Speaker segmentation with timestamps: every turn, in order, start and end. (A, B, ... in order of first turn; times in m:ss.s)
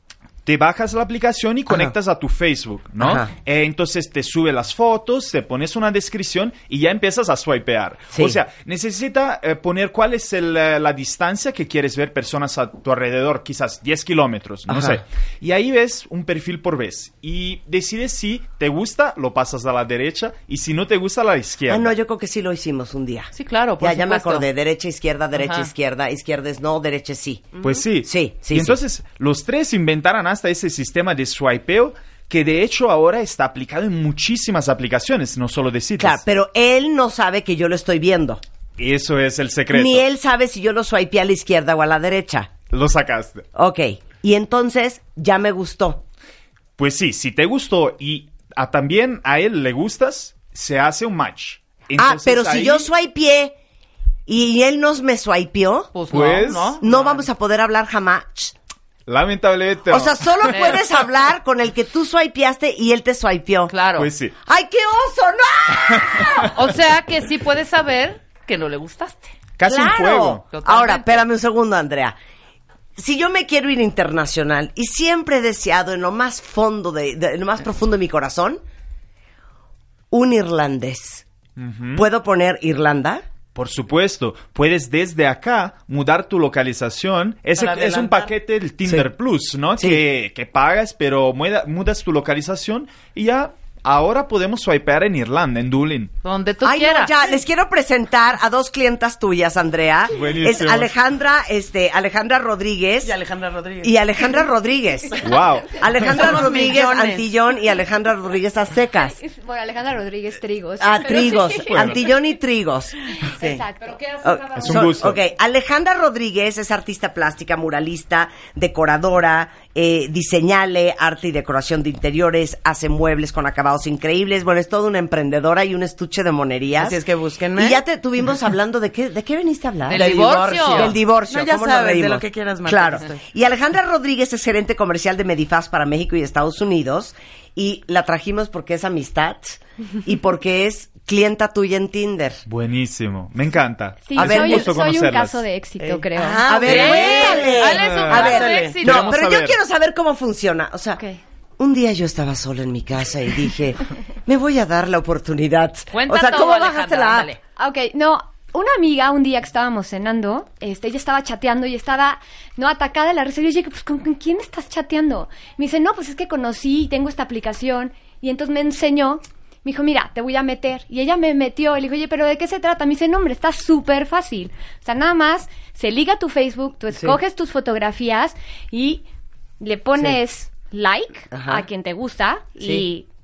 0:00.4-0:21.9 A
0:03.0-0:03.3 B
0:08.1-0:08.4 B
0:14.7-0:15.0 B
0:21.7-0:28.8 B
0:23.3-0:24.5 C
0:25.3-0:25.7 C
0:27.6-0:27.8 D
0:27.6-0:36.2 A
0:36.0-0:38.4 B
0:38.8-0:40.0 A
0:39.7-0:42.5 B
0:42.7-0:43.4 A
0:43.6-0:46.0 B
0:46.8-0:52.9 A
0:52.0-0:53.6 B
0:54.3-0:55.9 B
0:55.9-0:57.3 C
0:56.1-0:56.8 A
0:56.8-0:58.6 B
0:59.1-1:00.6 A
0:59.9-1:03.7 B
1:00.5-1:00.8 C
1:03.7-1:04.1 C
1:04.0-1:04.4 A
1:04.5-1:06.6 B
1:05.8-1:06.5 A
1:06.5-1:09.4 C
1:09.6-1:10.4 A
1:09.7-1:12.2 B
1:10.5-1:11.2 C
1:13.0-1:18.6 B
1:20.1-1:21.2 B
1:21.6-1:22.1 A
1:22.0-1:23.2 B
1:23.6-1:36.1 A
1:27.5-1:28.3 D
1:29.8-1:30.0 B
1:36.2-1:37.2 C
1:36.6-1:43.2 B
1:40.1-1:40.9 A
1:43.0-1:44.0 D
1:43.8-1:49.2 B
1:45.2-1:45.9 A
1:46.0-1:47.3 D
1:49.0-1:52.1 E
1:50.8-1:53.0 B
1:51.7-1:52.0 A
1:53.2-1:54.9 E
1:53.4-1:53.6 D
1:54.2-2:07.0 B
1:54.6-1:55.2 A
2:06.8-2:07.8 D
2:07.6-2:10.2 B
2:09.9-2:11.0 C
2:09.9-2:13.2 D
2:10.7-2:22.4 B
2:22.5-2:25.4 A
2:24.0-2:27.1 E
2:24.2-2:24.7 B
2:25.8-2:28.8 D
2:26.4-2:31.0 B
2:26.6-2:29.2 C
2:27.8-2:29.6 A
2:31.6-2:37.3 B
2:35.9-2:37.4 C
2:37.6-2:59.0 E
2:56.9-2:57.2 B
2:59.6-3:03.1 E
3:01.3-3:01.7 B
3:02.6-3:02.8 B